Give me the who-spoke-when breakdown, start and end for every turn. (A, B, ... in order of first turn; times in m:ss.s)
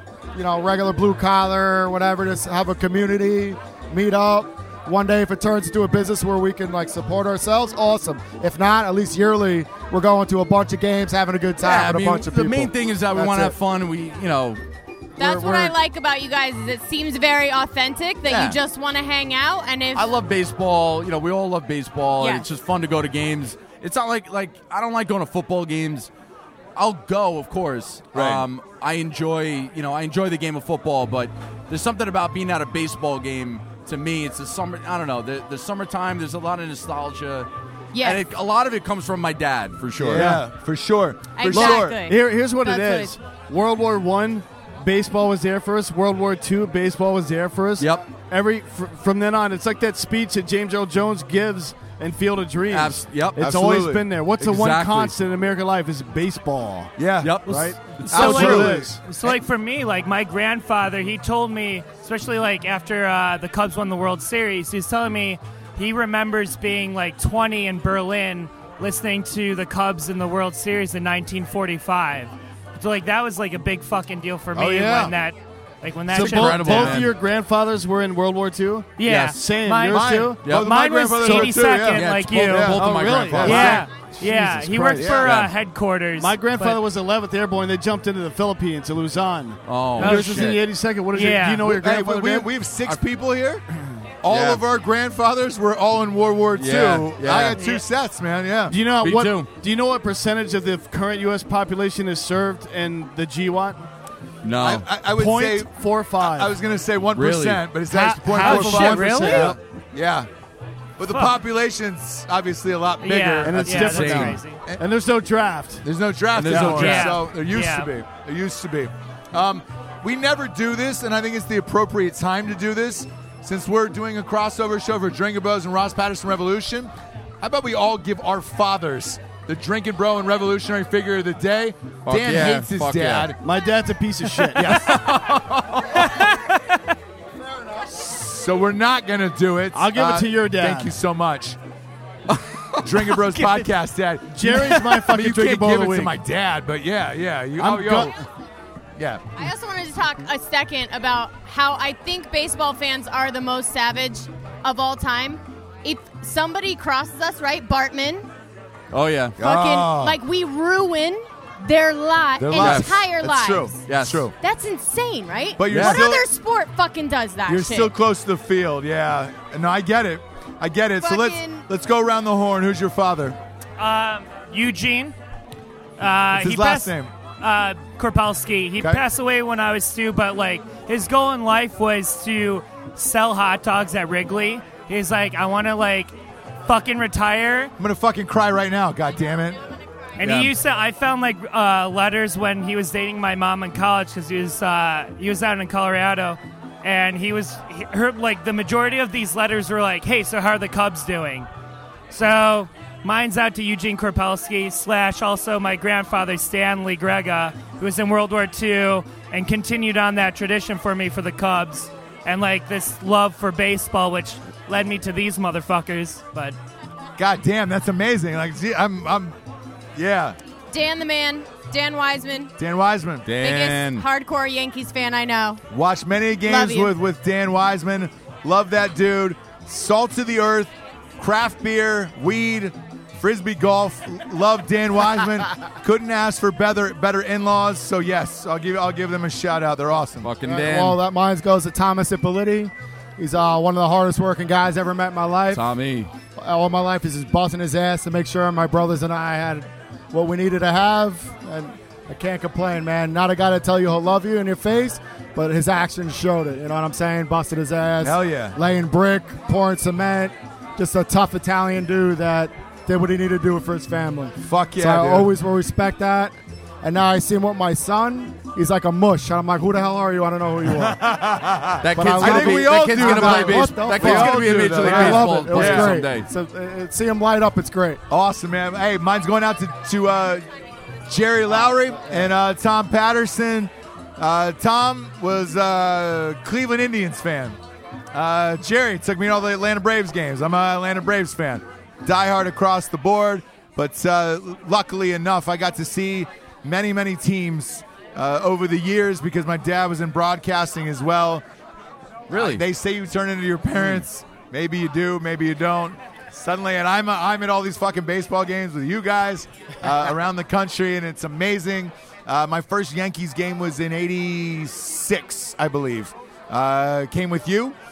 0:00.3-0:13.5 A
0:11.6-0:14.6 B
0:15.2-0:20.1 C
0:15.2-0:15.8 B
0:18.2-0:18.6 B
0:19.9-0:26.1 B
0:22.2-0:22.4 C
0:26.8-0:40.4 B
0:28.1-0:28.4 D
0:37.9-0:38.2 C
0:40.0-0:42.0 D
0:40.1-0:40.4 E
0:41.3-0:43.1 C
0:41.5-0:56.9 E
0:47.8-0:48.0 B
0:52.7-0:53.5 B
0:53.4-0:54.0 D
0:54.4-0:55.1 B
0:57.0-0:59.0 D
0:57.2-0:58.4 B
0:57.4-0:59.0 E
0:58.1-1:17.0 F
1:14.5-1:15.1 D
1:16.1-1:20.4 E
1:16.1-1:17.1 B
1:19.0-1:22.8 F
1:19.0-1:19.4 B
1:19.9-1:23.8 D
1:20.4-1:20.7 B
1:21.2-1:21.7 E
1:21.8-1:23.8 B
1:22.5-1:25.2 E
1:23.4-1:26.8 F
1:25.0-1:25.3 D
1:25.1-1:25.5 B
1:26.2-1:32.5 E
1:29.6-1:30.6 B
1:30.0-1:30.4 F
1:31.1-1:31.6 F
1:31.6-1:33.6 D
1:34.2-1:38.8 D
1:34.3-1:34.6 B
1:36.6-1:37.6 B
1:37.6-1:37.8 F
1:38.7-1:43.8 E
1:39.0-1:39.5 B
1:44.4-1:44.9 B
1:44.6-1:50.3 D
1:45.1-1:46.6 E
1:47.1-1:47.7 B
1:47.9-1:49.5 F
1:48.3-1:49.6 E
1:48.4-1:49.5 B
1:51.0-1:54.8 D
1:51.1-1:51.4 F
1:53.0-1:54.6 F
1:53.4-1:55.8 E
1:53.7-1:54.4 B
1:55.8-2:13.4 D
1:56.3-1:57.2 B
1:56.5-1:57.0 E
1:56.7-1:57.9 F
2:12.1-2:13.3 B
2:13.4-2:14.8 E
2:14.4-2:16.1 B
2:14.6-2:15.1 D
2:16.0-2:16.8 F
2:17.9-2:21.6 D
2:19.7-2:20.9 E
2:22.3-2:22.8 B
2:22.8-2:28.2 D
2:24.3-2:26.2 E
2:27.6-2:28.2 E
2:29.0-2:29.2 D
2:29.4-2:38.3 C
2:38.9-2:39.4 B
2:39.4-2:40.2 D
2:39.4-2:43.8 C
2:42.4-2:44.3 D
2:42.5-2:43.0 B
2:43.8-2:44.3 B
2:44.4-2:47.9 C
2:45.6-2:46.3 D
2:45.7-2:46.1 B
2:47.4-2:53.4 D
2:51.0-2:51.6 C
2:53.8-2:55.2 F
2:56.0-3:07.7 F
2:56.3-2:57.1 D
3:07.8-3:09.6 D
3:10.2-3:21.5 F
3:10.2-3:10.5 B
3:22.1-3:36.6 F
3:37.2-3:39.4 D
3:40.0-3:40.4 D
3:40.7-3:42.5 C
3:42.6-3:43.3 D
3:43.2-3:44.0 B
3:43.4-3:45.6 C
3:45.7-4:00.3 D
3:46.4-3:46.9 C
4:00.2-4:01.0 B
4:00.4-4:05.6 A
4:05.5-4:06.1 B
4:06.4-4:31.0 A
4:18.0-4:18.6 D
4:24.4-4:25.3 D
4:30.7-4:36.0 D
4:31.8-4:36.3 B
4:31.9-4:38.0 A
4:38.1-4:40.4 D
4:41.0-4:47.6 D
4:41.6-4:42.3 A
4:48.1-5:01.4 D
5:02.3-5:02.6 B
5:02.3-5:17.7 D
5:03.8-5:04.0 B